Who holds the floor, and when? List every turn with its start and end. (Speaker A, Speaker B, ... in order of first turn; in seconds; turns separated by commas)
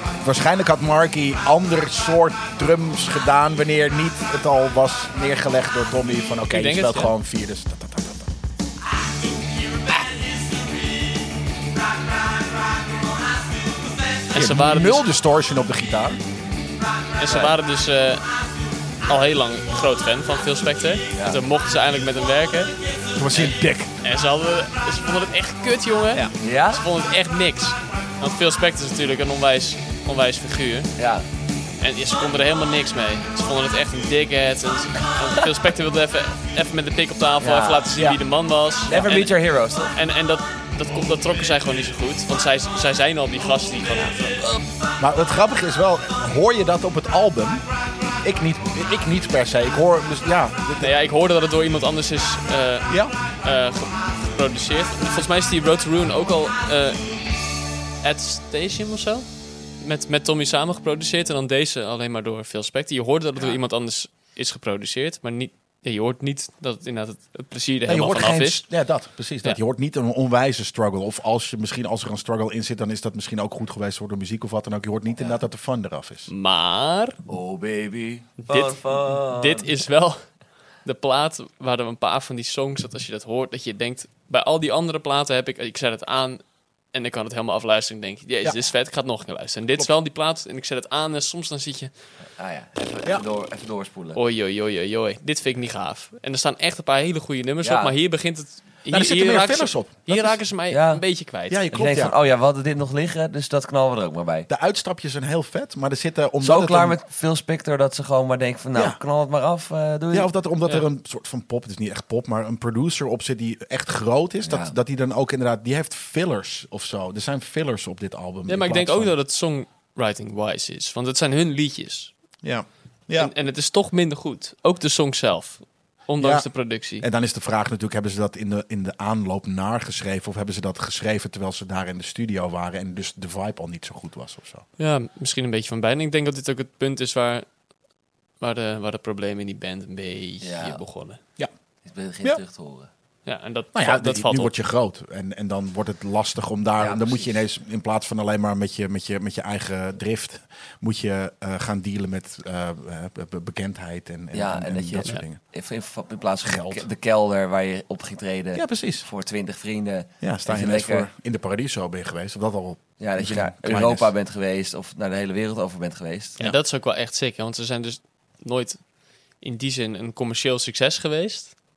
Speaker A: 0.2-8.3, Speaker B: 6.5-7.1, Speaker B: 14.3-15.0, Speaker A: 14.3-16.2, Speaker B: 17.2-18.2, Speaker C: 17.3-17.5, Speaker B: 19.1-22.8, Speaker C: 21.1-21.4, Speaker A: 23.1-23.9, Speaker B: 23.3-30.9, Speaker C: 26.4-26.8, Speaker C: 31.0-31.2, Speaker B: 31.8-39.3, Speaker C: 37.4-38.1, Speaker C: 38.9-40.0, Speaker B: 39.9-44.6, Speaker A: 45.0-47.6, Speaker A: 48.2-51.0, Speaker B: 50.8-57.1, Speaker A: 52.9-53.1, Speaker B: 58.0-59.2, Speaker B: 59.8-68.6, Speaker A: 67.8-76.3, Speaker B: 76.3-77.2, Speaker C: 77.3-79.7, Speaker B: 78.5-80.2, Speaker B: 80.8-91.9, Speaker C: 92.4-94.2, Speaker B: 94.1-101.6, Speaker C: 97.6-97.9, Speaker A: 98.9-100.4, Speaker C: 100.7-101.0, Speaker A: 101.5-102.2, Speaker C: 101.7-104.5, Speaker A: 104.5-107.0, Speaker C: 106.4-110.3, Speaker A: 108.7-109.0, Speaker A: 110.1-119.1, Speaker C: 114.4-114.7, Speaker B: 118.5-122.1, Speaker A: 122.4-123.3, Speaker B: 123.1-127.0, Speaker A: 126.2-126.5, Speaker A: 127.0-134.6, Speaker B: 134.8-137.5, Speaker B: 138.4-141.2, Speaker C: 140.4-140.8, Speaker C: 141.8-142.9, Speaker B: 143.2-144.5, Speaker A: 143.7-155.4, Speaker C: 146.8-147.3, Speaker C: 154.3-161.1, Speaker A: 156.4-156.8, Speaker A: 158.5-159.1, Speaker A: 160.2-164.1, Speaker C: 163.0-166.4, Speaker B: 166.4-168.8, Speaker B: 169.4-171.6